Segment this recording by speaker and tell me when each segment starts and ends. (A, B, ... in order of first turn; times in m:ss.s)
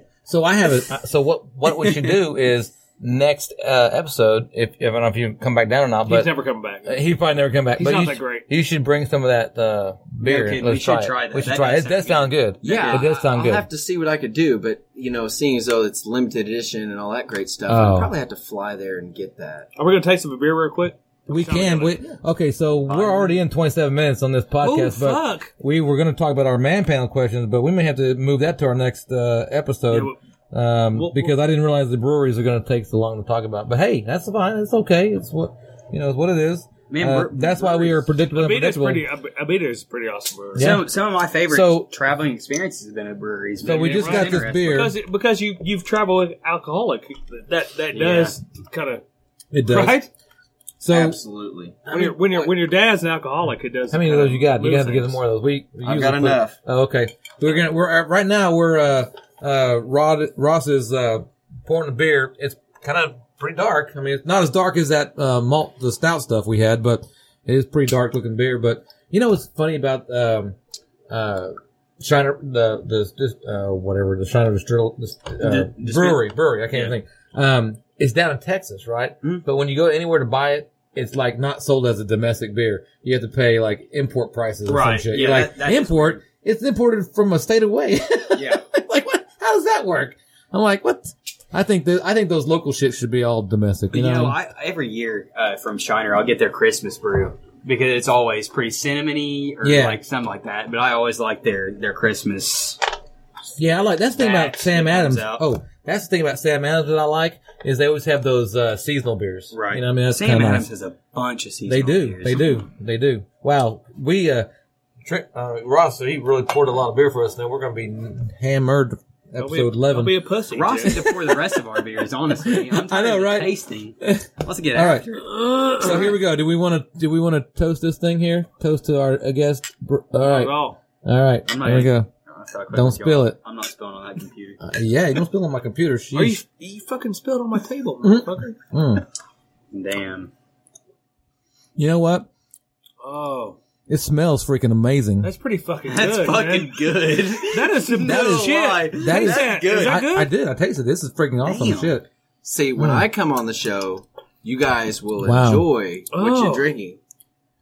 0:00.3-0:06.3 A
0:06.1-0:06.9 B
0:06.8-0:13.7 A
0:07.8-0:08.5 B
0:10.2-0:13.2 C
0:12.6-0:19.7 D
0:17.7-0:18.1 A
0:19.8-0:22.0 B
0:21.3-0:39.0 A
0:22.8-0:23.4 C
0:24.6-0:25.5 B
0:29.9-0:30.2 B
0:30.9-0:31.3 B
0:36.9-0:38.0 C
0:38.3-0:40.7 B
0:40.6-0:40.9 A
0:40.6-0:44.8 C
0:41.5-0:41.9 A
0:43.6-0:45.0 A
0:43.7-0:49.0 B
0:47.9-0:48.4 C
0:49.5-0:50.0 A
0:49.7-0:50.1 B
0:50.8-0:51.2 A
0:50.9-0:51.9 D
0:51.9-0:52.5 A
0:51.9-0:55.2 B
0:53.9-1:10.6 A
0:55.8-0:56.6 D
1:11.1-1:34.4 A
1:15.4-1:17.0 C
1:24.7-1:26.2 C
1:28.4-1:28.6 C
1:33.9-1:42.8 C
1:39.6-1:40.0 A
1:43.6-1:50.7 A
1:44.1-1:45.4 C
1:49.5-1:52.7 C
1:51.7-1:54.5 A
1:55.0-2:00.2 A
1:59.4-2:01.0 B
2:00.5-2:05.2 C
2:02.4-2:05.1 A
2:05.3-2:06.0 B
2:05.7-2:12.1 A
2:10.2-2:10.8 B
2:11.5-2:14.6 C
2:12.7-2:13.4 A
2:14.6-2:16.4 A
2:16.1-2:18.6 B
2:18.0-2:19.0 A
2:19.7-2:20.3 C
2:21.8-2:22.3 A
2:23.0-2:23.6 B
2:23.9-2:25.3 A
2:25.2-2:26.7 B
2:25.9-2:30.0 C
2:27.5-2:30.3 B
2:28.0-2:32.1 A
2:31.4-2:31.9 C
2:32.4-2:37.0 D
2:32.8-2:33.1 A
2:35.2-2:35.7 A
2:36.1-2:36.7 B